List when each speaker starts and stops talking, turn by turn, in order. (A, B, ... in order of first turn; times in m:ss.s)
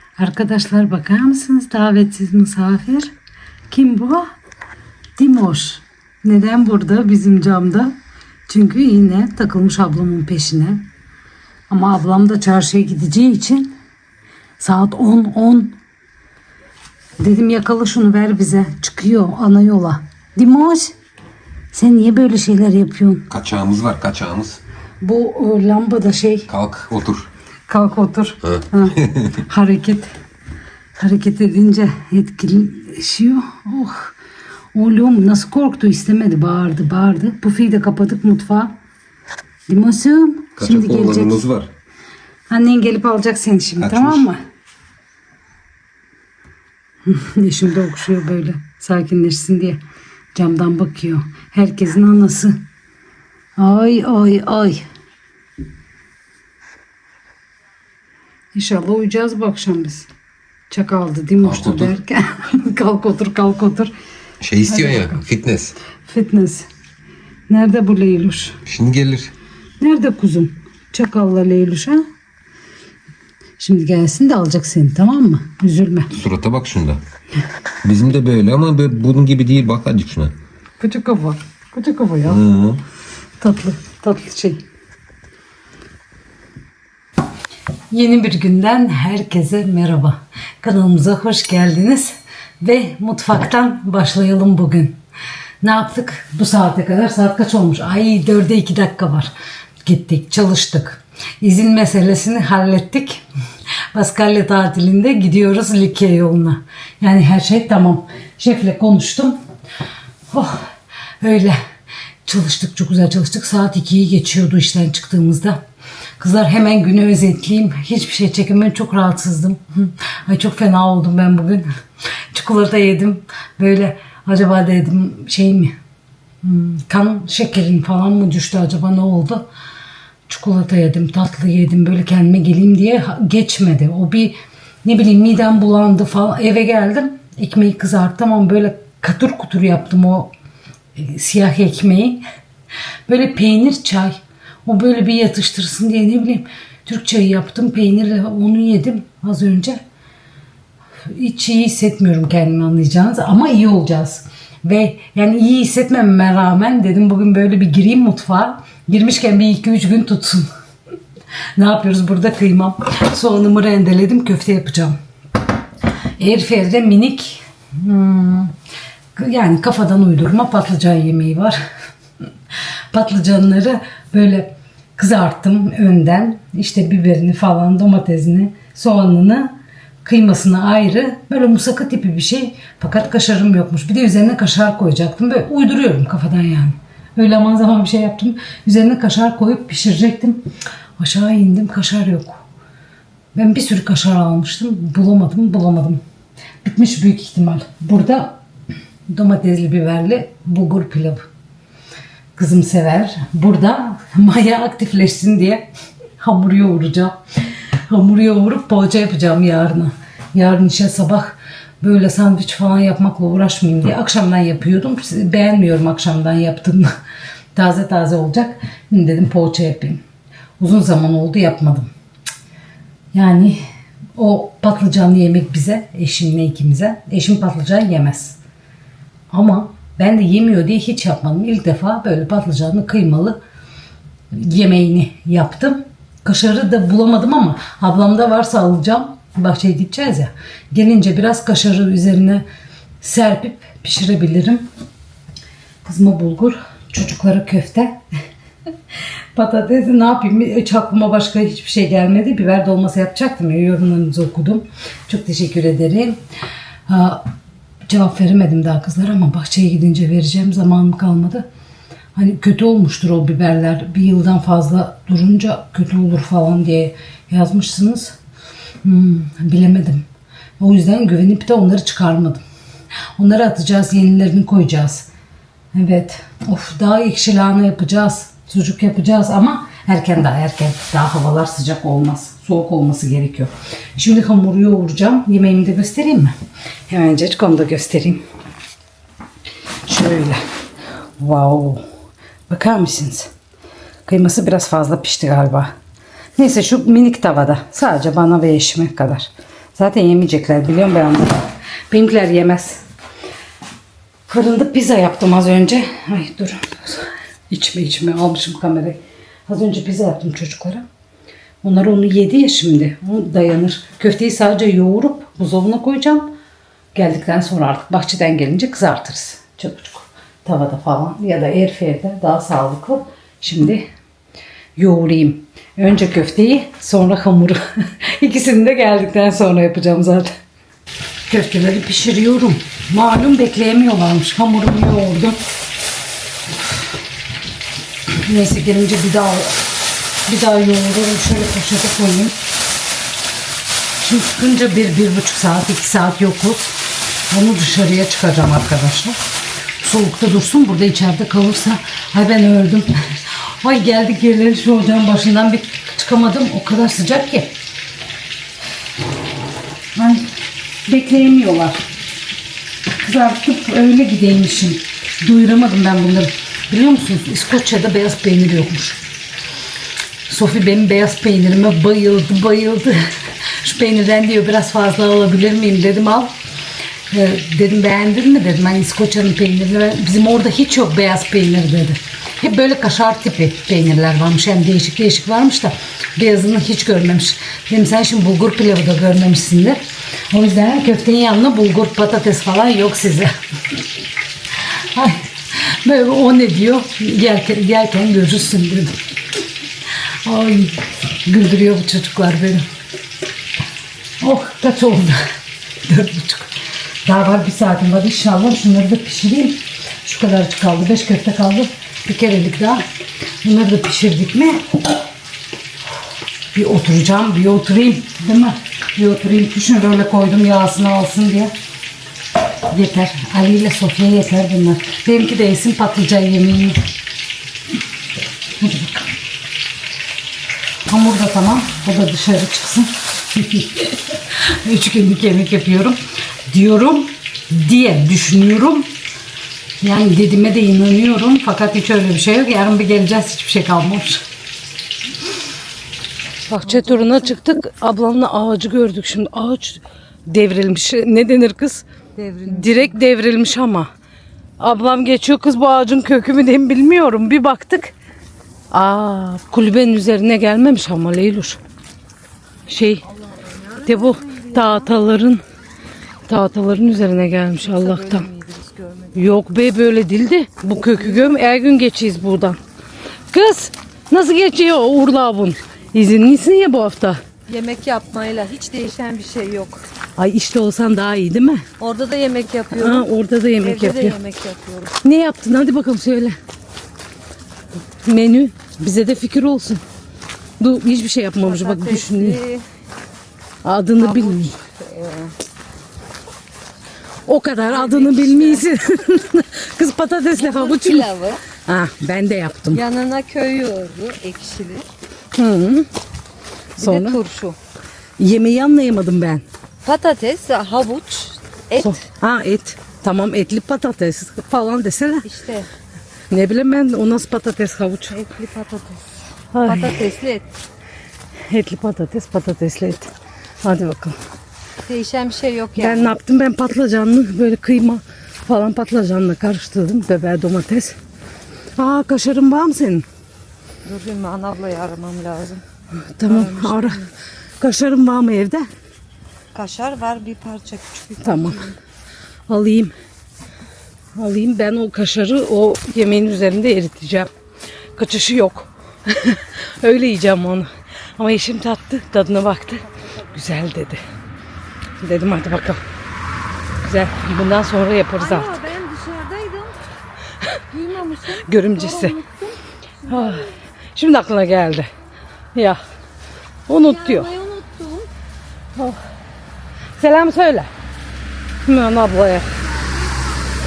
0:00.2-0:03.1 A
0:03.7-0:04.3 A
0:05.2-0:08.0 A
0:08.5-0:10.8 A
0:11.7-0:13.8 A
0:14.6-0:15.8 A
0:17.2-0:20.9 A
0:21.7-0:23.3 A
0:23.3-0:24.6 B
0:25.0-0:26.5 A
0:26.5-0:27.3 B
0:27.7-0:30.1 A
0:31.0-0:34.1 A
0:34.8-0:38.7 A
0:39.7-0:41.4 A
0:40.6-0:41.7 B
0:42.5-0:44.4 A
0:43.8-0:44.2 B
0:47.1-0:49.8 A
0:50.4-0:52.6 A
0:53.6-0:54.9 A
0:58.5-1:00.1 A
1:00.7-1:03.9 A
1:01.4-1:01.9 B
1:04.4-1:05.8 B
1:04.7-1:05.2 A
1:06.0-1:06.7 A
1:07.5-1:08.6 A
1:08.6-1:09.3 B
1:09.8-1:12.0 A
1:13.6-1:16.1 A
1:16.1-1:17.0 B
1:17.8-1:20.3 B
1:20.8-1:22.4 A
1:22.2-1:22.8 B
1:23.4-1:24.6 A
1:27.9-1:35.0 A
1:35.6-1:39.3 A
1:39.8-1:43.2 A
1:43.9-1:49.4 A
1:50.3-1:50.7 A
1:51.2-1:51.6 A
1:52.2-1:55.6 A
1:56.2-2:01.7 A
2:02.3-2:05.8 A
2:06.4-2:09.5 A
2:10.3-2:20.3 A
2:21.0-2:22.2 A
2:23.1-2:29.8 A
2:31.1-2:40.5 A
2:41.6-2:45.0 A
2:46.2-2:48.5 A
2:49.2-2:51.6 A
2:52.9-2:59.5 A
3:00.0-3:10.4 A
3:11.0-3:12.4 A
3:13.4-3:16.0 A
3:16.6-3:18.3 A
3:19.1-3:21.3 A
3:22.4-3:25.7 A
3:26.2-3:27.2 A
3:27.9-3:36.9 A
3:37.6-3:40.0 A
3:40.6-3:41.9 A
3:43.1-3:43.6 A
3:44.2-3:48.4 A
3:49.3-3:53.4 A
3:54.3-4:02.4 A
4:03.0-4:04.7 A
4:05.8-4:08.0 A
4:09.4-4:16.2 A
4:16.9-4:17.3 A
4:17.9-4:21.5 A
4:22.2-4:28.2 A
4:28.8-4:30.1 A
4:30.6-4:32.4 A
4:33.2-4:35.1 A
4:35.7-4:46.4 A
4:46.9-4:48.2 A
4:49.9-4:50.4 A
4:51.2-4:51.8 A
4:52.5-4:53.3 A
4:54.1-4:55.7 A
4:56.4-5:02.8 A
5:04.3-5:10.8 A
5:11.6-5:16.3 A
5:16.9-5:23.9 A
5:24.8-5:30.3 A
5:31.3-5:35.4 A
5:38.1-5:39.6 A
5:40.3-5:42.4 A
5:44.0-5:46.7 A
5:47.3-5:49.2 A
5:49.8-5:57.5 A
6:00.0-6:00.3 A
6:00.9-6:01.8 A
6:03.0-6:09.0 A
6:10.3-6:16.3 A
6:17.1-6:33.3 A
6:34.8-6:39.0 A
6:40.2-6:42.7 A
6:44.2-6:45.2 A
6:45.8-6:46.5 A
6:47.0-6:52.8 A
6:53.4-6:54.6 A
6:56.5-7:01.5 A
7:02.7-7:06.8 A
7:08.6-7:09.1 A
7:10.9-7:18.9 A
7:19.8-7:24.2 A
7:26.5-7:31.8 A
7:26.7-7:27.3 C
7:32.2-7:32.9 C
7:32.5-7:33.9 A
7:34.6-7:37.9 A
7:38.7-7:41.6 A
7:42.7-7:43.1 A
7:43.3-7:44.8 C
7:43.8-7:45.4 A
7:46.3-7:48.3 A
7:47.5-7:49.2 C
7:49.1-7:52.6 A
7:53.3-7:57.2 A
7:57.5-7:59.8 C
8:00.2-8:01.7 A
8:01.8-8:03.1 C
8:02.8-8:04.2 A
8:03.6-8:04.9 C
8:05.0-8:06.4 A
8:08.0-8:09.8 A
8:10.6-8:12.4 A
8:11.4-8:12.6 C
8:13.6-8:14.6 A
8:14.0-8:15.3 C
8:17.3-8:21.1 A
8:17.7-8:18.7 C
8:20.4-8:21.4 C
8:21.6-8:22.8 A
8:22.7-8:24.9 C
8:25.4-8:25.9 A
8:26.8-8:27.6 C
8:26.8-8:27.2 A
8:28.2-8:29.4 A
8:29.8-8:32.0 C
8:31.8-8:35.3 A
8:35.2-8:35.7 C
8:36.3-8:38.2 A
8:38.1-8:39.0 C
8:39.5-8:40.0 A
8:39.6-8:40.5 C
8:41.5-8:43.1 A
8:43.6-8:44.2 A
8:44.9-8:46.1 C
8:45.8-8:51.0 A
8:51.8-8:53.1 A
8:53.9-8:55.6 C
8:56.2-8:57.0 A
8:56.3-8:57.1 C
8:57.6-8:58.7 A
8:59.5-9:01.8 C
9:01.2-9:01.7 A
9:02.5-9:02.9 A
9:04.2-9:07.3 A
9:08.0-9:14.0 A
9:15.0-9:15.8 A
9:16.8-9:18.5 A
9:18.2-9:19.8 C
9:20.7-9:23.5 C
9:21.3-9:22.2 A
9:23.0-9:24.9 A
9:25.6-9:25.8 A
9:26.7-9:27.3 A
9:26.8-9:28.1 C
9:30.0-9:30.7 A
9:31.6-9:32.5 A